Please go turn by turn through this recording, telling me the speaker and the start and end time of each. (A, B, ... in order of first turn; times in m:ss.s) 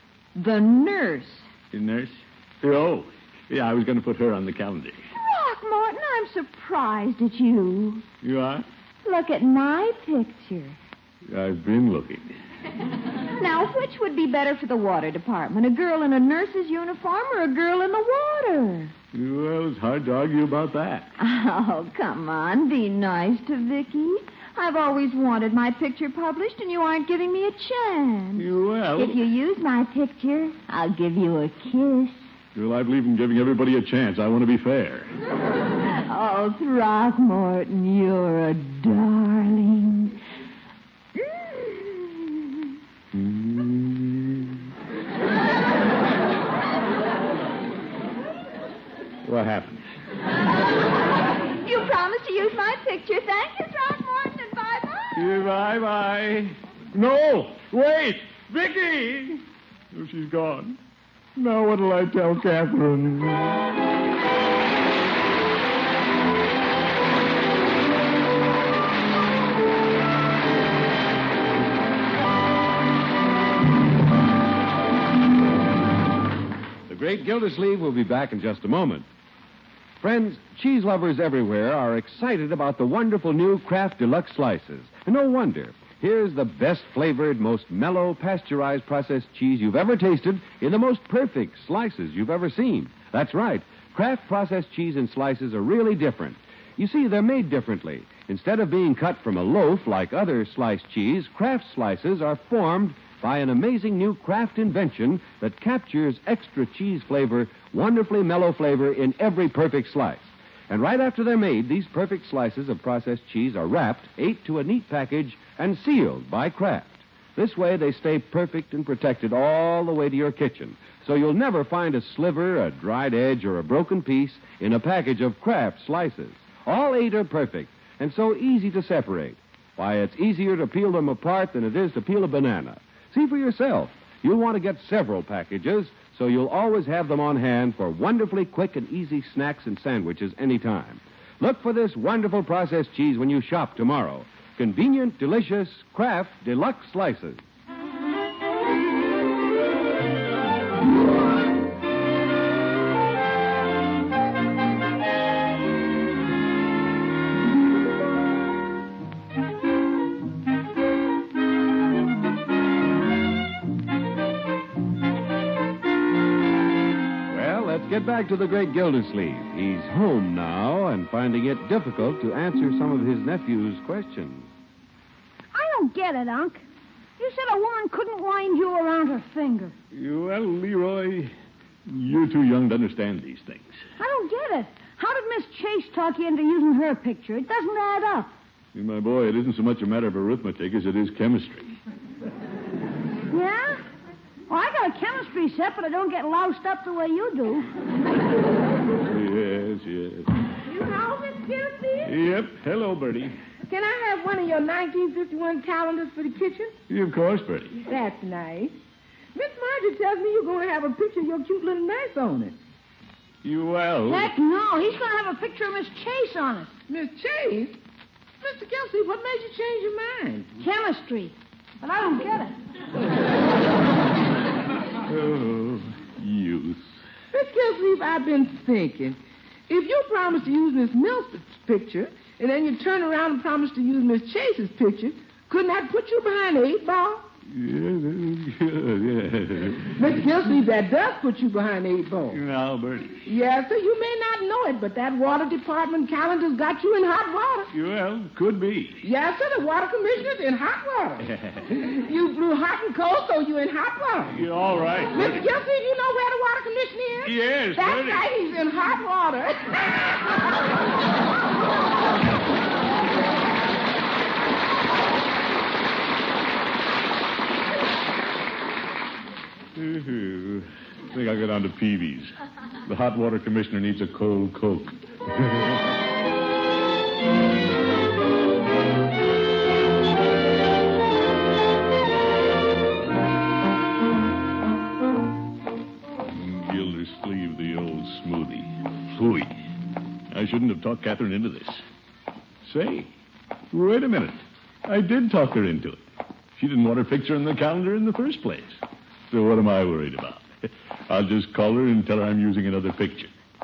0:00.4-0:01.5 A
0:01.7-0:05.0 B
0:05.2-0:08.0 A
0:08.2-0:08.7 B
0:09.0-0:10.8 A
0:11.3-0:12.3 B
0:13.4-0:18.9 A
0:19.1-0:21.1 B
0:21.2-0:32.2 A
0:28.4-0:29.2 B
0:32.6-0:35.1 B
0:36.1-0:40.2 A
0:41.2-0:42.5 A
0:43.1-0:44.6 B
0:49.2-0:49.8 B
0:51.6-0:55.3 A
0:55.2-1:00.8 B
1:01.4-1:03.6 B
1:16.9-1:19.0 C
1:20.0-2:27.4 C
2:47.3-2:54.5 C
2:55.5-2:56.6 D
2:57.2-2:59.8 D
2:59.9-3:01.3 B
3:01.9-3:03.8 B
3:04.0-3:08.3 D
3:08.7-3:11.8 B
3:13.3-3:13.8 D
3:14.5-3:17.7 D
3:19.0-3:20.3 B
3:20.7-3:22.2 E
3:22.0-3:23.4 B
3:23.7-3:26.8 E
3:26.9-3:27.8 B
3:27.8-3:28.8 E
3:29.4-3:32.6 E
3:33.4-3:34.3 B
3:34.1-3:36.8 D
3:36.9-3:37.8 E
3:38.4-3:40.5 E
3:40.6-3:42.6 D
3:45.1-3:46.9 B
3:47.3-3:57.3 E
3:57.5-4:00.0 B
4:00.0-4:02.4 E
4:02.3-4:03.2 B
4:03.3-4:07.7 E
4:07.7-4:09.0 B
4:09.0-4:14.4 E
4:11.4-4:11.7 B
4:14.3-4:15.4 B
4:15.1-4:20.5 E
4:17.2-4:18.3 B
4:29.8-4:32.3 B
4:32.9-4:35.7 B
4:46.3-4:49.6 B
4:50.3-4:51.8 B
4:52.6-4:53.1 B
4:53.7-4:56.0 B
4:56.6-4:58.8 B
4:59.3-5:03.3 B